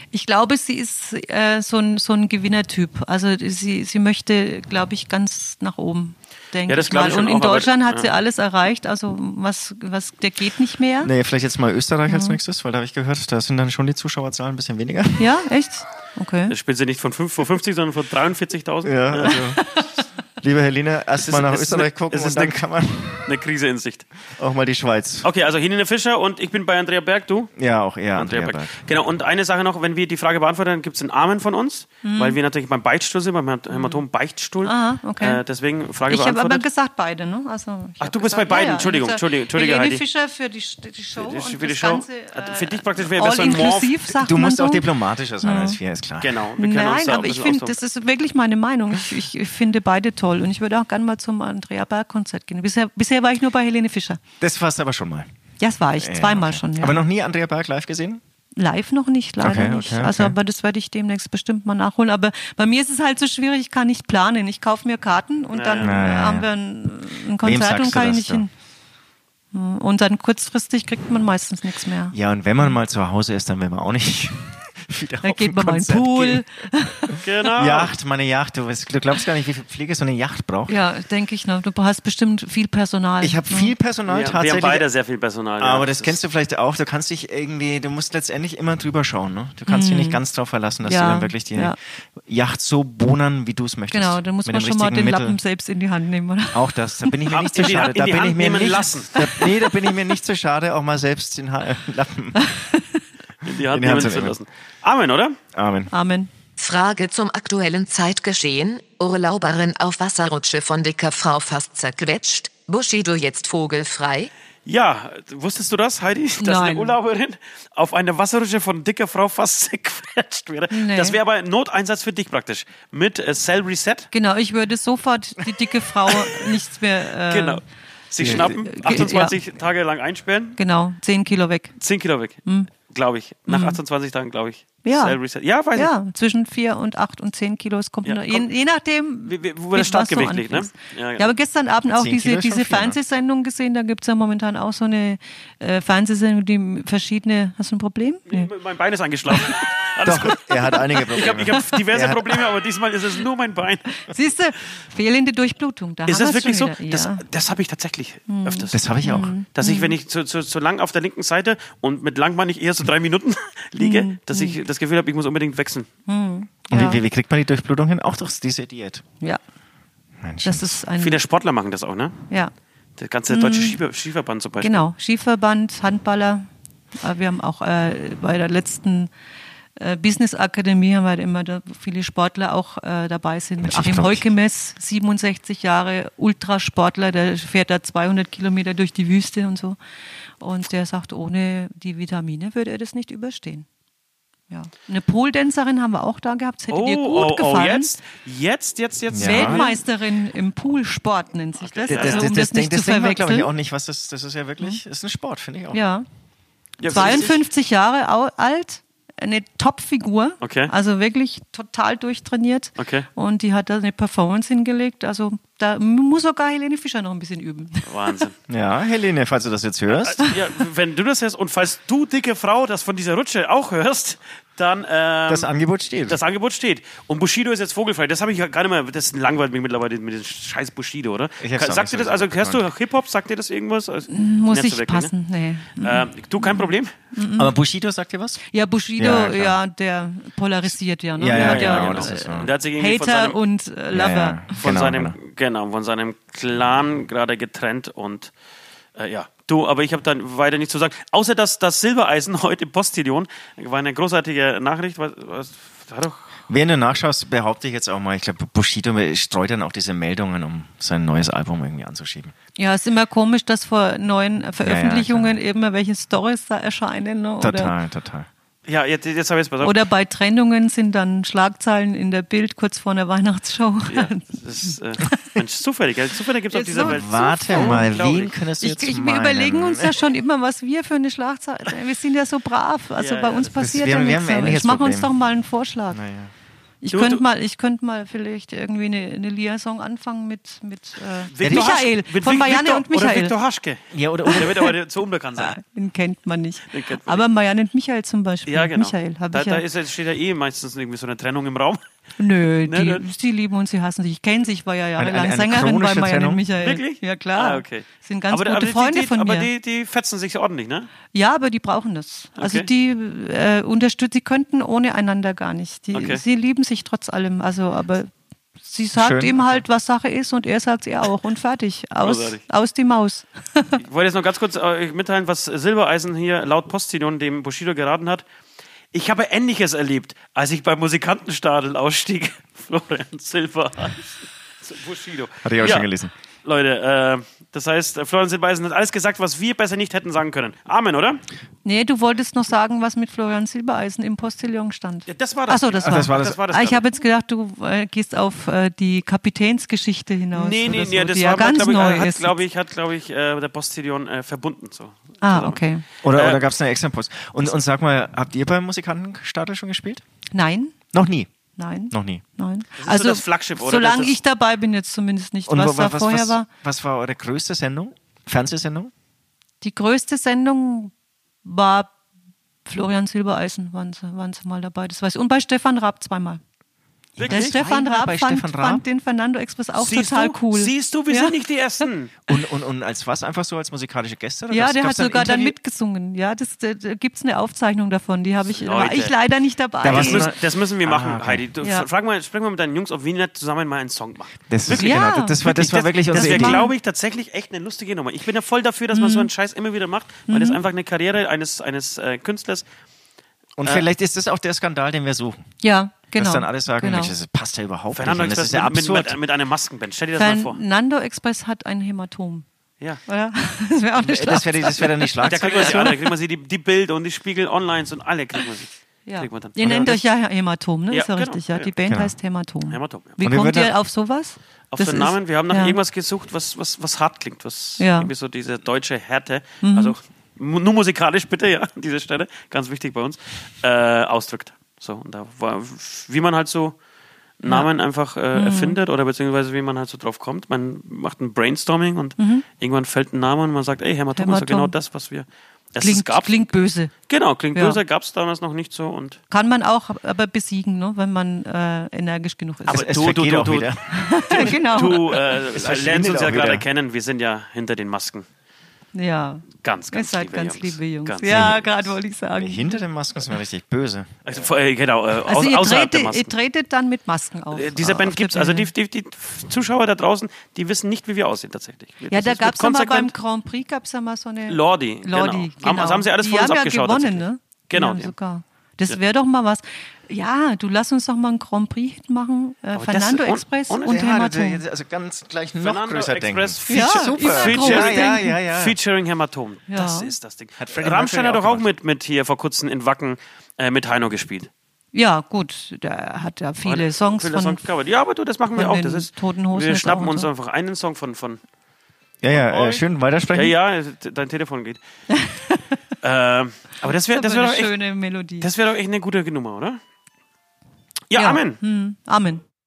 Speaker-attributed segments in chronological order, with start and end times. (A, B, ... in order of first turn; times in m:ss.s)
0:00.1-0:11.1 A
0:06.7-0:08.1 B
0:11.0-0:15.3 C
0:12.1-0:12.4 A
0:15.2-0:16.5 A
0:16.5-0:19.4 B
0:18.8-0:19.7 C
0:19.5-0:19.8 A
0:20.4-0:23.3 C
0:21.2-0:22.6 B
0:23.2-0:24.1 B
0:24.4-0:25.3 C
0:25.2-0:27.5 B
0:27.6-0:28.8 C
0:28.1-0:36.6 B
0:32.0-0:32.4 A
0:33.7-0:34.0 A
0:34.6-0:35.4 A
0:36.1-0:44.8 A
0:38.0-0:40.0 B
0:41.2-0:44.0 B
0:44.2-0:46.4 C
0:45.4-0:45.8 A
0:46.2-0:47.8 B
0:46.6-0:54.2 A
0:54.4-0:55.3 C
0:55.6-0:57.0 A
0:56.0-0:58.2 C
0:58.6-1:08.5 A
0:59.4-1:00.4 C
1:05.5-1:06.0 B
1:05.8-1:06.5 C
1:07.4-1:08.4 C
1:09.5-1:12.7 A
1:12.1-1:16.4 C
1:15.2-1:17.2 A
1:17.1-1:20.8 C
1:17.2-1:17.9 B
1:20.7-1:23.7 A
1:23.2-1:24.8 C
1:24.1-1:26.2 B
1:25.6-1:35.4 C
1:29.7-1:30.2 A
1:30.8-1:31.8 A
1:33.9-1:37.1 A
1:36.5-1:42.5 C
1:37.3-1:39.2 B
1:39.2-1:39.6 A
1:42.4-1:43.0 A
1:43.4-1:45.4 B
1:43.7-1:44.4 C
1:45.5-1:45.9 C
1:45.9-1:46.3 A
1:46.6-1:54.3 D
1:54.6-2:04.1 B
1:56.4-1:57.0 A
2:00.7-2:01.2 A
2:04.1-2:07.6 A
2:07.3-2:10.6 B
2:08.2-2:09.0 C
2:08.2-2:09.3 A
2:10.6-2:11.7 A
2:11.8-2:15.9 B
2:13.5-2:13.8 A
2:14.8-2:15.2 A
2:15.7-2:28.5 A
2:18.0-2:18.5 B
2:19.2-2:21.3 B
2:22.0-2:23.0 C
2:28.3-2:33.9 B
2:29.3-2:29.6 A
2:30.0-2:32.3 C
2:30.7-2:31.0 A
2:34.0-2:37.2 A
2:36.1-2:38.8 B
2:38.3-2:39.9 A
2:38.7-2:39.3 C
2:39.5-2:45.9 B
2:43.8-2:44.6 A
2:46.1-2:47.0 A
2:46.7-2:49.0 C
2:50.2-2:50.8 C
2:50.4-2:51.2 A
2:51.0-2:52.2 B
2:53.0-2:54.8 B
2:53.3-2:53.8 A
2:54.6-2:56.5 A
2:57.0-2:59.1 A
2:59.8-3:09.8 A
3:03.6-3:04.2 C
3:10.4-3:13.7 A
3:14.5-3:18.0 A
3:16.7-3:19.8 B
3:19.1-3:19.7 C
3:19.2-3:23.5 A
3:21.6-3:22.3 B
3:21.9-3:25.8 C
3:25.7-3:26.0 A
3:26.8-3:27.3 B
3:26.8-3:38.2 A
3:26.9-3:27.3 C
3:30.4-3:30.7 B
3:32.8-3:33.1 B
3:37.8-3:38.3 B
3:38.5-3:40.2 C
3:40.0-3:45.5 B
3:45.3-3:46.2 C
3:46.0-3:55.1 B
3:51.4-3:52.6 C
3:54.1-3:57.6 A
3:55.8-3:56.9 B
3:57.4-3:58.4 C
3:58.5-4:04.6 A
3:59.0-3:59.6 C
4:01.2-4:02.5 C
4:01.2-4:03.4 B
4:03.9-4:05.2 C
4:04.6-4:08.3 B
4:09.0-4:16.3 B
4:16.5-4:22.3 C
4:22.6-4:27.7 A
4:24.6-4:25.4 C
4:27.4-4:28.3 C
4:28.6-4:29.8 B
4:29.6-4:34.2 A
4:33.9-4:38.4 B
4:36.5-4:37.9 A
4:36.8-4:40.0 C
4:38.6-4:46.0 A
4:43.0-4:43.5 B
4:43.5-4:45.1 C
4:45.9-4:46.3 C
4:46.8-4:53.3 A
4:46.9-4:47.2 B
4:51.3-4:53.8 B
4:51.4-4:51.7 C
4:53.9-4:54.6 C
4:54.2-4:54.7 A
4:54.3-4:55.6 B
4:55.4-4:59.6 A
4:56.7-4:57.2 B
4:58.5-5:01.8 B
5:02.2-5:09.5 A
5:02.6-5:03.0 B
5:05.0-5:06.4 C
5:06.6-5:10.9 B
5:11.1-5:18.1 A
5:12.4-5:12.7 B
5:15.9-5:16.2 B
5:18.6-5:23.8 A
5:19.0-5:19.6 C
5:22.0-5:22.4 B
5:23.8-5:28.2 B
5:28.9-5:35.9 B
5:35.4-5:36.1 C
5:36.4-5:41.2 B
5:41.6-5:52.4 A
5:45.1-5:46.8 B
5:45.8-5:46.4 C
5:50.3-5:55.6 B
5:55.2-5:55.8 A
5:56.0-6:00.0 C
5:56.1-5:56.4 B
6:00.3-6:00.7 A
6:00.9-6:01.3 C
6:01.6-6:06.5 A
6:01.9-6:02.2 C
6:02.8-6:04.2 B
6:05.5-6:08.9 C
6:09.6-6:10.9 A
6:11.4-6:11.9 A
6:12.6-6:16.4 A
6:17.2-6:18.8 C
6:17.2-6:17.6 B
6:17.3-6:21.3 A
6:19.8-6:22.1 B
6:22.3-6:25.6 C
6:24.5-6:30.3 A
6:28.5-6:29.1 B
6:29.8-6:31.4 C
6:29.8-6:42.6 B
6:31.6-6:31.9 A
6:34.5-6:36.6 C
6:34.7-6:36.7 A
6:38.9-6:39.3 A
6:40.3-6:40.6 A
6:43.6-6:45.4 C
6:45.6-6:47.1 A
6:46.2-6:49.2 C
6:47.9-6:50.6 B
6:50.2-6:52.4 A
6:53.1-6:56.1 A
6:54.0-6:55.9 C
6:55.2-7:00.0 B
6:59.0-7:05.8 A
6:59.6-7:00.0 C
7:00.9-7:01.7 B
7:01.9-7:02.1 C
7:02.7-7:03.2 B
7:03.2-7:03.7 C
7:04.7-7:16.8 B
7:07.8-7:08.1 A
7:09.6-7:09.9 A
7:17.4-7:26.5 B
7:18.3-7:18.8 A
7:22.2-7:22.4 A
7:24.2-7:24.7 A
7:25.8-7:26.9 A
7:27.1-7:29.2 B
7:27.5-7:27.8 A
7:29.3-7:33.0 A
7:32.7-7:33.8 B
7:32.7-7:36.6 C
7:33.9-7:35.1 A
7:34.3-7:38.2 B
7:38.9-7:42.8 A
7:39.6-7:41.6 B
7:41.2-7:44.5 C
7:44.2-7:46.3 B
7:45.2-7:48.7 A
7:47.5-7:53.1 B
7:52.1-8:04.6 A
7:54.5-7:58.1 B
8:02.8-8:04.0 B
8:03.8-8:08.8 C
8:05.6-8:14.5 B
8:06.7-8:08.4 A
8:09.7-8:10.1 A
8:10.6-8:11.7 C
8:14.9-8:17.6 A
8:16.6-8:21.4 B
8:18.5-8:20.3 A
8:22.2-8:23.5 C
8:22.3-8:24.8 B
8:25.1-8:25.8 A
8:26.0-8:27.7 B
8:27.1-8:28.5 A
8:28.4-8:29.8 B
8:31.1-8:31.6 B
8:31.1-8:32.4 A